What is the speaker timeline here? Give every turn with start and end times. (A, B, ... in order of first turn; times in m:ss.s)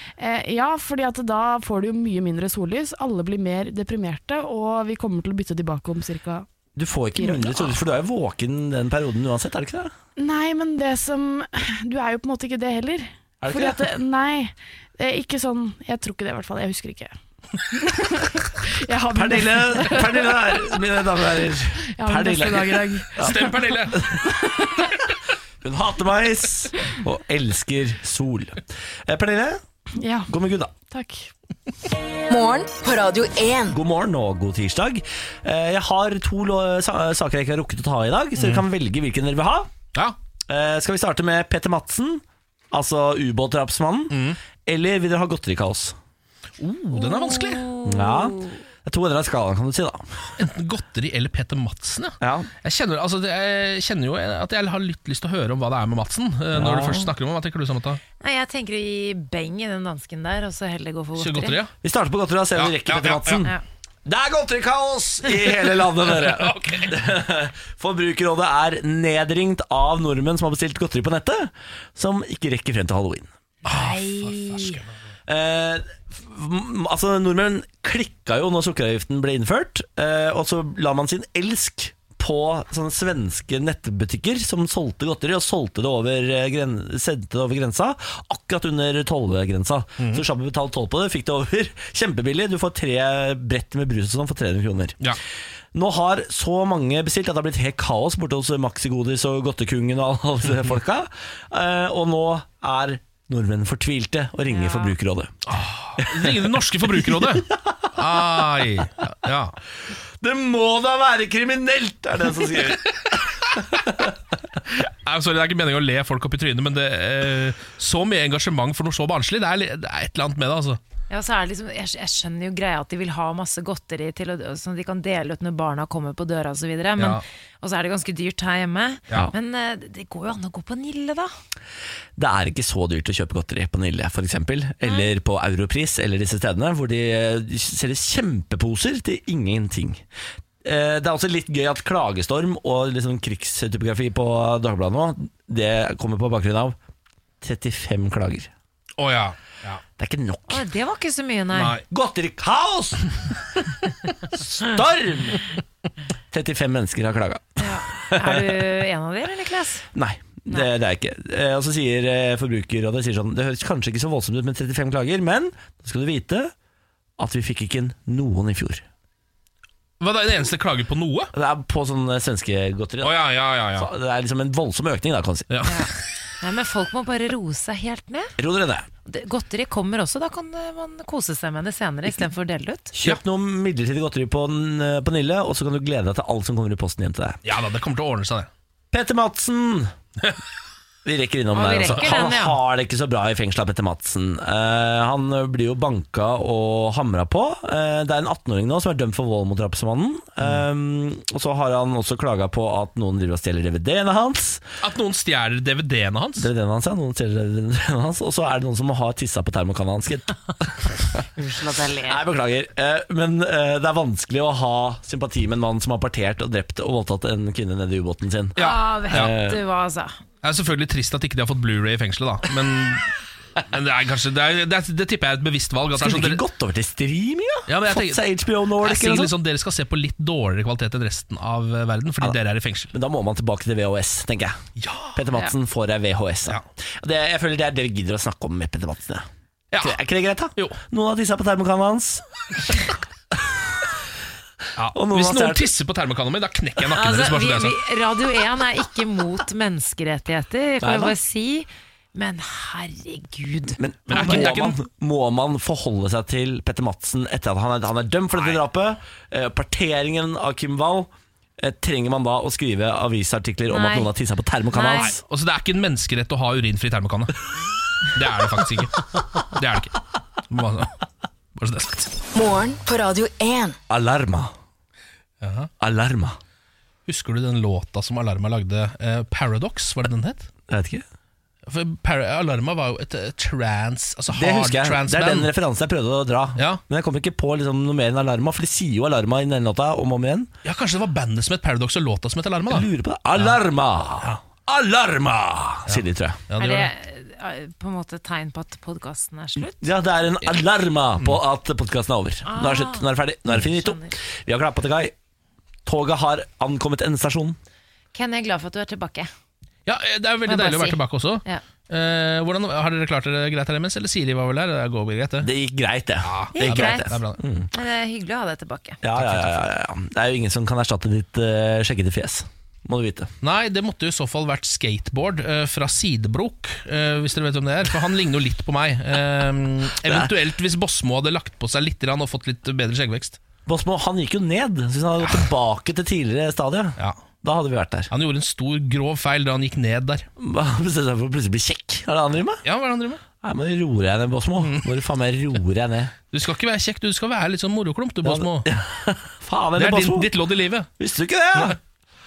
0:00.2-0:06.5 A
0:06.8-0:09.9 B
0:07.2-0:07.7 A
0:10.2-0:17.1 A
0:13.4-0:13.9 B
0:17.6-0:20.6 A
0:19.1-0:24.3 B
0:21.9-0:23.6 A
0:23.2-0:24.0 C
0:24.3-0:24.9 A
0:25.6-0:29.6 B
0:30.0-0:30.3 A
0:30.3-0:30.7 B
0:30.9-0:31.3 A
0:32.3-0:33.8 D
0:33.7-0:39.7 B
0:38.4-0:38.6 C
0:40.5-0:46.0 B
0:44.1-0:44.4 C
0:46.6-0:47.7 C
0:47.8-0:50.2 B
0:50.4-0:58.0 C
0:52.2-0:52.5 B
0:56.5-0:57.1 B
0:58.2-1:01.6 E
1:01.2-1:01.7 C
1:01.8-1:03.5 B
1:02.5-1:03.5 C
1:04.1-1:13.3 B
1:06.1-1:07.0 C
1:13.6-1:14.8 E
1:13.6-1:14.9 C
1:15.3-1:35.0 B
1:35.7-1:45.4 B
1:44.5-1:44.9 E
1:45.5-1:49.6 C
1:46.0-1:47.6 B
1:50.2-1:54.1 B
1:54.9-2:00.8 C
2:01.1-2:11.3 E
2:07.0-2:07.2 C
2:12.2-2:20.0 B
2:14.8-2:15.1 E
2:20.6-2:26.8 B
2:27.4-2:28.5 B
2:29.0-2:29.8 C
2:30.0-2:30.6 B
2:30.5-2:31.8 E
2:31.6-2:31.8 C
2:31.9-2:33.1 B
2:34.3-2:35.4 B
2:36.3-2:38.5 B
2:37.6-2:39.9 E
2:39.9-2:46.5 B
2:47.2-2:48.8 B
2:50.0-2:51.3 C
2:51.3-2:53.2 B
2:53.0-2:53.9 C
2:53.8-2:55.5 B
2:55.5-2:55.9 C
2:55.6-2:58.3 E
2:58.4-2:58.9 B
2:59.0-3:02.9 E
3:02.9-3:07.4 B
3:07.4-3:08.5 C
3:08.9-3:09.9 B
3:11.0-3:24.6 B
3:11.5-3:12.6 E
3:24.8-3:26.5 C
3:26.4-3:30.3 B
3:31.4-3:32.2 E
3:32.0-3:39.6 B
3:38.6-3:39.3 C
3:38.6-3:40.2 E
3:40.4-3:46.4 C
3:46.0-3:49.3 B
3:47.7-3:52.9 C
3:52.9-3:54.6 B
3:54.8-3:55.2 C
3:55.2-3:59.3 B
3:59.7-4:00.0 C
3:59.8-4:02.2 B
4:04.8-4:07.8 C
4:04.9-4:05.7 B
4:06.9-4:14.4 E
4:10.8-4:11.1 B
4:13.8-4:25.2 B
4:14.1-4:14.8 C
4:23.7-4:24.1 E
4:24.7-4:25.1 E
4:24.9-4:27.4 C
4:28.1-4:30.0 C
4:30.5-4:30.9 C
4:31.6-4:32.1 C
4:32.4-4:33.8 D
4:33.9-4:34.5 B
4:35.4-4:35.7 C
4:35.8-4:36.4 B
4:37.1-4:40.5 C
4:40.7-4:41.0 B
4:41.7-4:45.5 C
4:44.3-4:50.5 B
4:50.6-4:53.6 C
4:52.7-4:56.4 B
4:55.9-4:56.9 C
4:56.6-4:59.8 E
4:59.7-5:05.2 B
5:02.4-5:04.2 E
5:05.9-5:07.6 B
5:08.1-5:09.3 E
5:09.9-5:15.5 C
5:10.5-5:11.6 E
5:15.4-5:17.7 B
5:16.2-5:17.4 C
5:16.5-5:17.2 E
5:17.7-5:19.0 E
5:19.0-5:23.3 B
5:19.2-5:19.6 C
5:23.4-5:33.4 C
5:30.0-5:30.3 B
5:33.7-5:38.1 B
5:38.1-5:40.3 C
5:40.4-5:42.6 B
5:42.6-5:43.2 C
5:43.4-5:46.1 B
5:44.6-5:44.9 C
5:46.3-5:48.7 C
5:48.2-5:50.3 B
5:49.8-5:50.9 C
5:51.0-5:51.8 B